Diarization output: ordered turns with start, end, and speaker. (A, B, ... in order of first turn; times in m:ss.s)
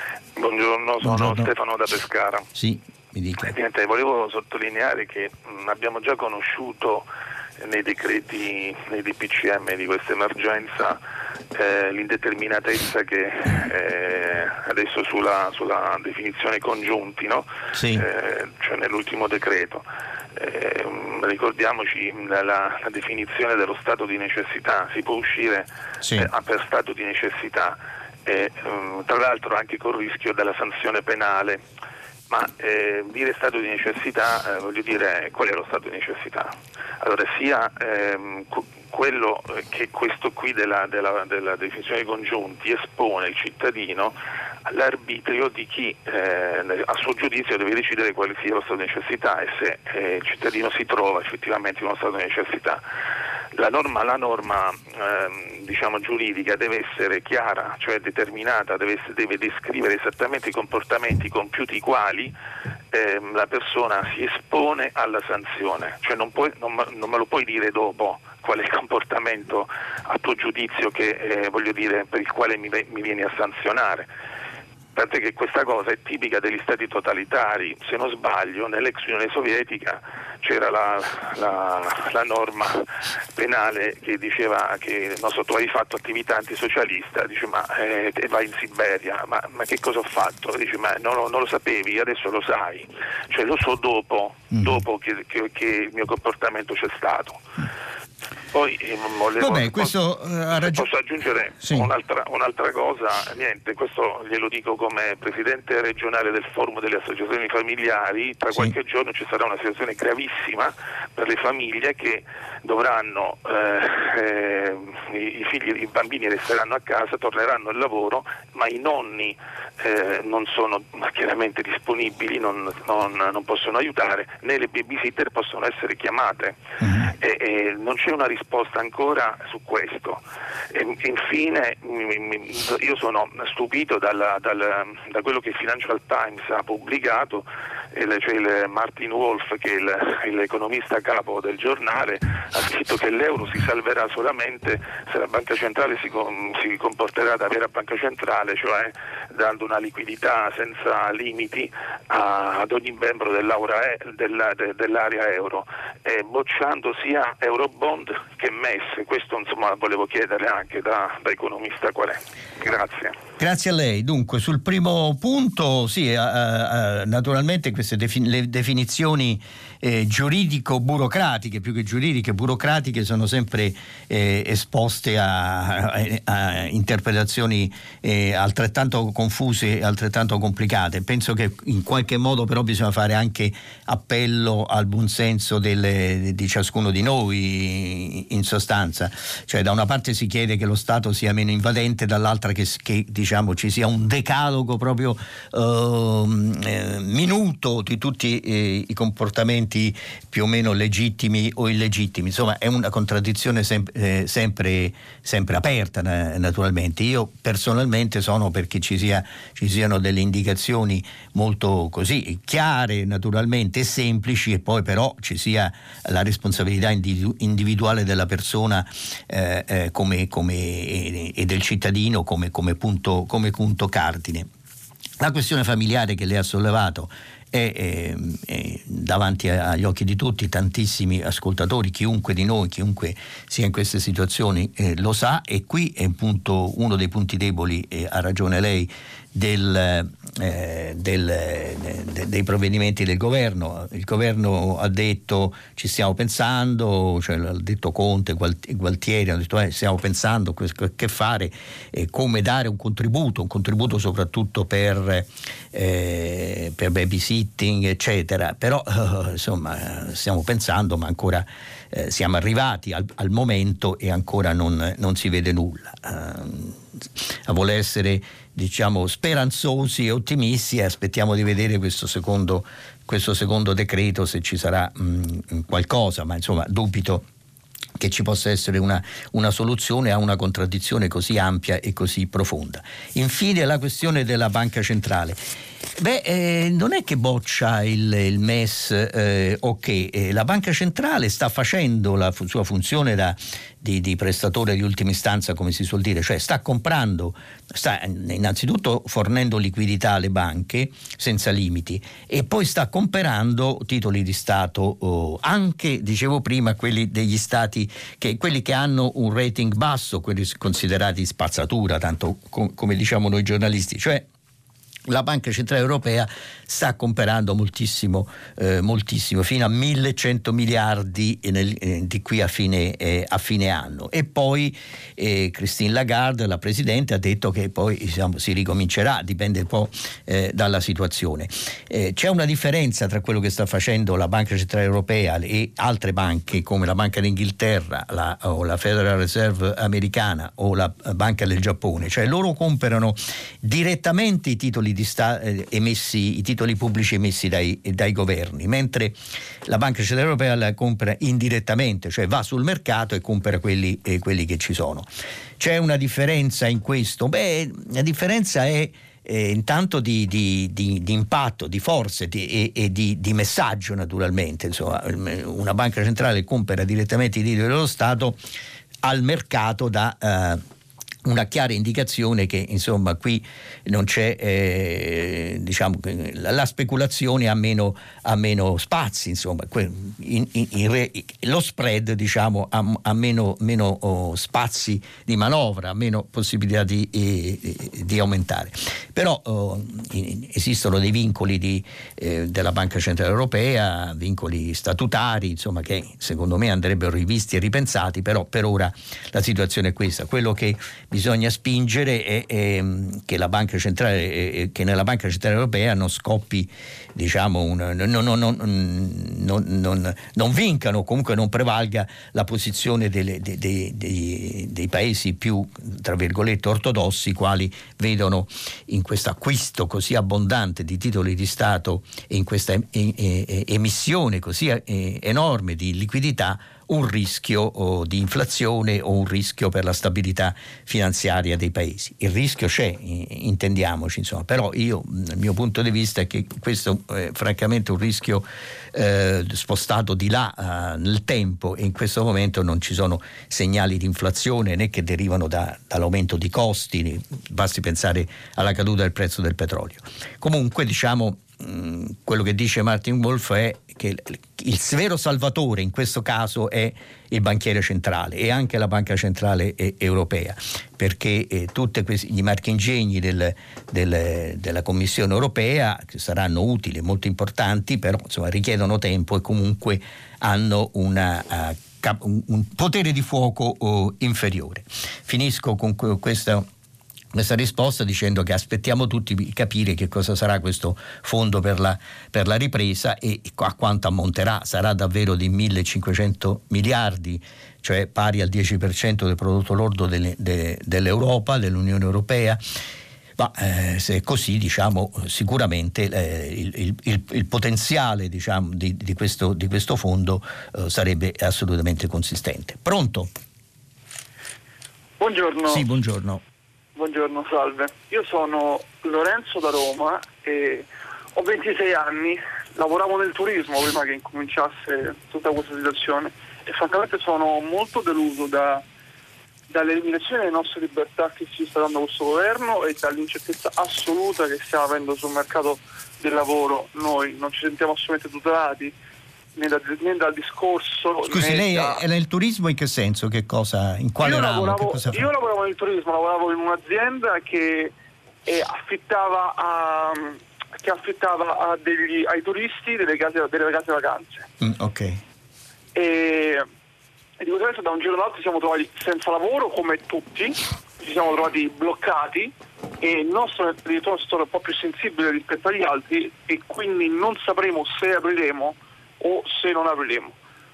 0:00.4-0:02.5 A
0:01.0-0:01.5 B
0:02.5-0:03.5 B
0:03.4-0:07.1 A
0:07.6-0:11.0 A
0:11.5-0:19.8 A
0:17.7-0:18.0 B
0:20.4-0:31.6 A
0:26.0-0:26.3 B
0:32.3-0:52.8 A
0:53.5-1:02.3 A
1:02.9-1:14.1 A
1:14.9-1:37.4 A
1:34.5-1:34.8 B
1:38.5-1:40.0 A
1:39.4-1:40.8 B
1:40.5-2:06.6 A
1:41.6-1:41.9 B
2:06.8-2:07.1 B
2:07.2-2:10.2 A
2:10.7-2:43.2 A
2:43.4-3:44.5 B
3:45.2-4:37.2 B
4:38.0-4:45.4 B
4:46.0-5:14.2 B
5:15.1-5:55.1 B
5:55.6-6:08.4 B
6:09.0-6:10.6 B
6:11.2-7:56.6 B
7:57.3-8:12.6 B
8:13.4-8:23.3 B
8:25.2-8:25.8 C
8:25.7-8:26.4 B
8:27.0-8:38.8 C
8:39.7-8:48.9 C
8:49.6-8:52.0 C
8:51.3-8:55.3 B
8:54.2-8:57.9 C
8:58.4-9:04.5 C
9:04.6-9:05.2 B
9:05.9-9:06.6 C
9:07.4-9:20.4 C